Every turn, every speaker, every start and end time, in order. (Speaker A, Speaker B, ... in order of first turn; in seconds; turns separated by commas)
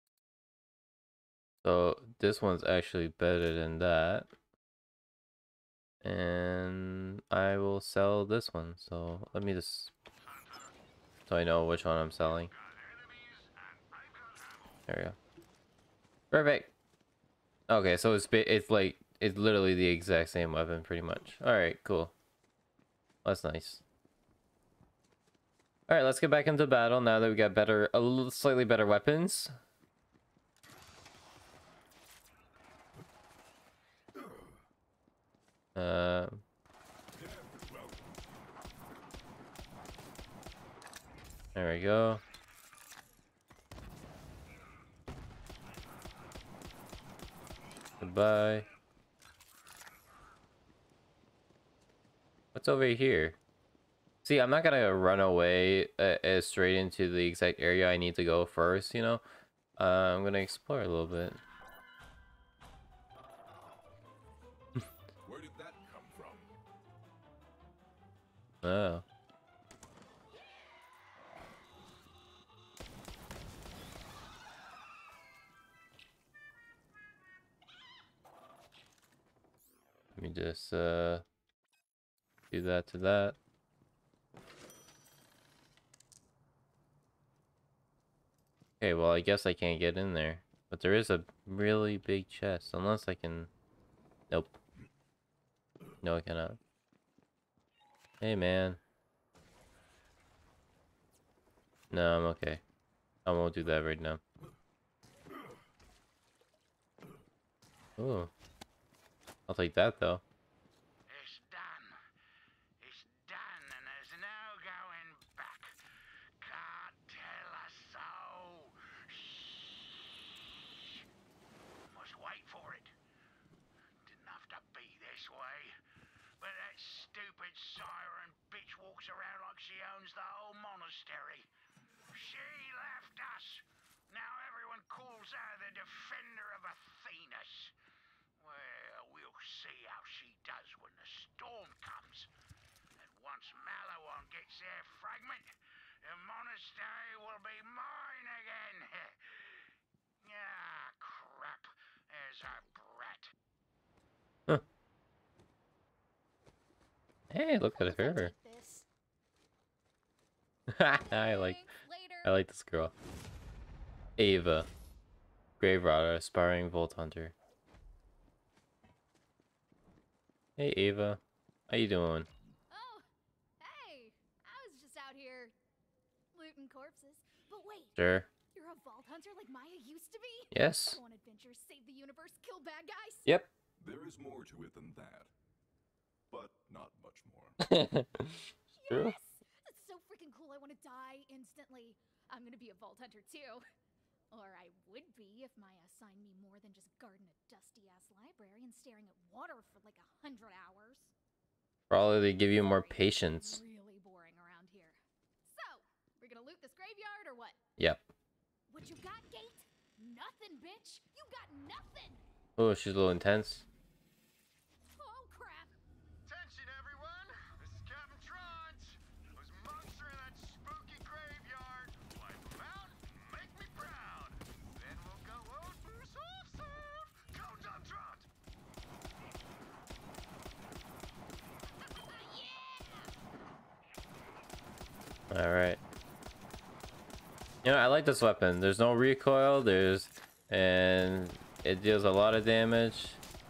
Speaker A: 1.6-4.3, Speaker A: 6.0-9.9, Speaker B: 10.2-10.7, Speaker A: 11.3-12.5, Speaker B: 12.2-14.8, Speaker A: 14.9-15.2, Speaker A: 16.3-16.7, Speaker A: 17.7-22.1, Speaker A: 23.2-23.8, Speaker A: 25.9-29.5, Speaker A: 35.8-36.4, Speaker C: 37.1-38.4, Speaker A: 41.5-42.2, Speaker A: 48.0-48.7, Speaker A: 52.5-53.4, Speaker A: 54.2-59.2, Speaker A: 59.8-61.4, Speaker C: 65.2-66.5, Speaker A: 68.6-69.0, Speaker A: 80.1-81.2, Speaker A: 82.5-83.4, Speaker A: 88.8-93.5, Speaker A: 94.3-94.6, Speaker A: 96.0-96.6, Speaker A: 98.2-98.8, Speaker A: 101.9-102.6, Speaker A: 103.2-104.2, Speaker A: 108.0-108.3, Speaker A: 109.5-110.2, Speaker B: 111.1-112.0, Speaker B: 112.8-115.7, Speaker B: 116.4-120.0, Speaker B: 120.6-121.0, Speaker B: 121.9-122.9, Speaker B: 124.0-125.7, Speaker B: 126.4-131.5, Speaker B: 132.1-137.7, Speaker B: 138.4-142.3, Speaker B: 143.0-145.5, Speaker B: 146.0-149.3, Speaker B: 150.2-153.3, Speaker A: 157.3-158.3, Speaker D: 157.6-158.9, Speaker A: 160.7-161.6, Speaker D: 160.9-162.4, Speaker A: 162.2-162.9, Speaker A: 164.2-164.7, Speaker A: 165.6-167.3, Speaker A: 170.6-172.3, Speaker D: 172.7-173.1, Speaker D: 173.6-175.5, Speaker D: 176.3-178.0, Speaker A: 178.0-178.3, Speaker D: 178.5-183.4, Speaker A: 180.5-181.0, Speaker C: 183.8-185.3, Speaker C: 186.3-187.6, Speaker A: 187.6-189.2, Speaker D: 188.7-193.6, Speaker D: 194.3-201.1, Speaker A: 201.9-203.6, Speaker D: 202.4-207.6, Speaker A: 207.8-208.1, Speaker D: 208.7-212.2, Speaker A: 212.6-213.7, Speaker D: 214.9-215.7, Speaker E: 216.2-228.3, Speaker D: 231.8-233.1, Speaker A: 235.3-235.8, Speaker A: 237.6-243.2